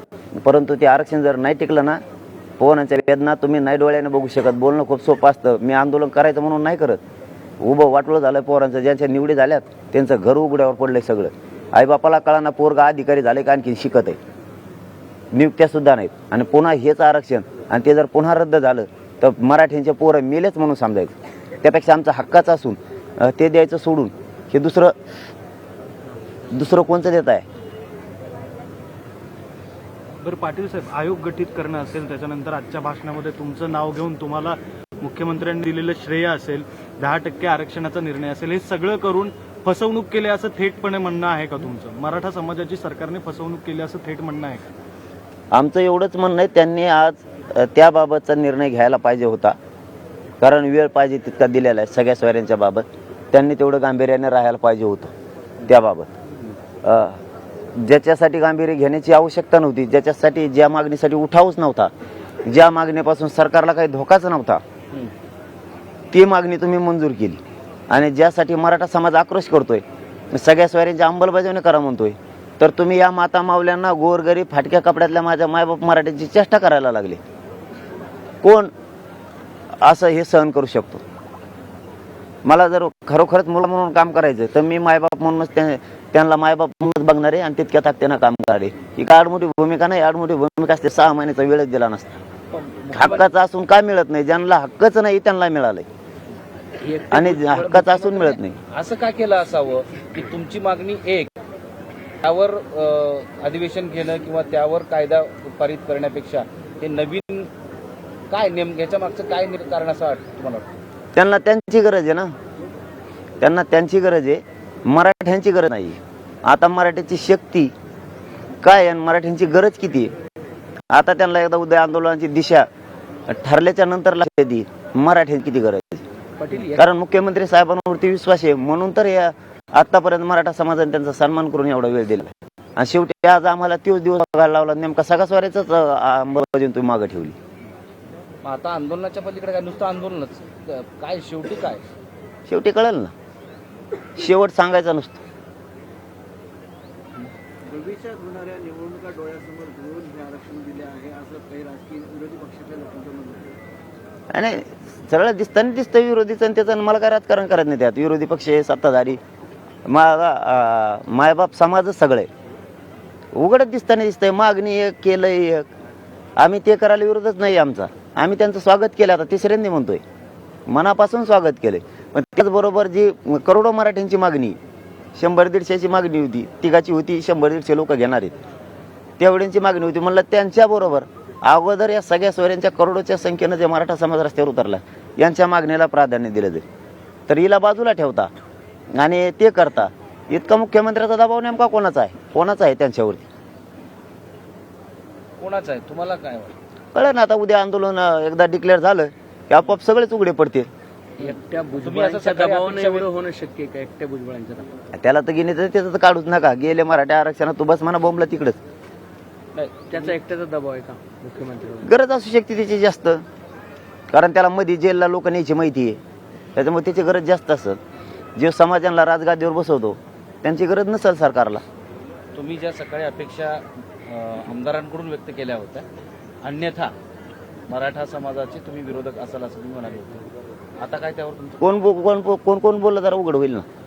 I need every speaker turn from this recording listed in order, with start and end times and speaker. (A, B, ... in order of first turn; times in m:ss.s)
0:00.3-0:02.0 A
0:02.6-0:07.0 A
0:07.6-0:14.2 A
0:15.3-0:24.9 A
0:26.5-0:27.4 A
0:30.2-0:44.6 B
0:45.5-0:49.6 A
0:50.4-0:55.1 A
0:55.6-0:56.1 A
0:56.8-0:57.2 A
0:57.7-1:01.9 A
1:02.4-1:04.6 A
1:06.1-1:17.2 A
1:18.4-1:18.7 A
1:19.8-1:21.0 A
1:22.4-1:32.2 A
1:32.5-1:33.3 C
1:32.9-1:35.8 A
1:36.8-1:38.3 D
1:37.1-1:38.6 A
1:37.6-1:41.3 C
1:42.2-1:47.5 C
1:48.3-1:50.6 C
1:51.1-1:52.3 A
1:53.4-1:57.7 A
1:58.6-2:00.1 A
2:00.9-2:02.7 A
2:03.3-2:06.0 A
2:06.4-2:06.8 D
2:06.6-2:17.4 A
2:18.4-2:21.8 C
2:22.5-2:23.1 A
2:24.2-2:25.2 A
2:27.6-2:33.5 D
2:34.3-2:39.2 A
2:39.8-2:42.3 A
2:43.3-2:45.7 A
2:46.4-2:50.0 A
2:50.7-2:54.6 A
2:55.2-2:58.3 A
2:59.2-3:06.6 A
3:07.3-3:08.3 A
3:08.9-3:13.2 A
3:15.4-3:16.5 C
3:16.9-3:20.7 A
3:21.2-3:23.1 C
3:21.2-3:24.7 D
3:25.0-3:28.6 A
3:29.5-3:30.1 C
3:29.9-3:31.9 D
3:31.8-3:33.2 A
3:34.1-3:36.0 A
3:36.5-3:37.8 A
3:38.4-3:41.6 A
3:42.3-3:45.8 C
3:46.4-3:46.9 C
3:47.7-3:50.1 C
3:50.8-3:51.6 C
3:51.6-3:53.6 A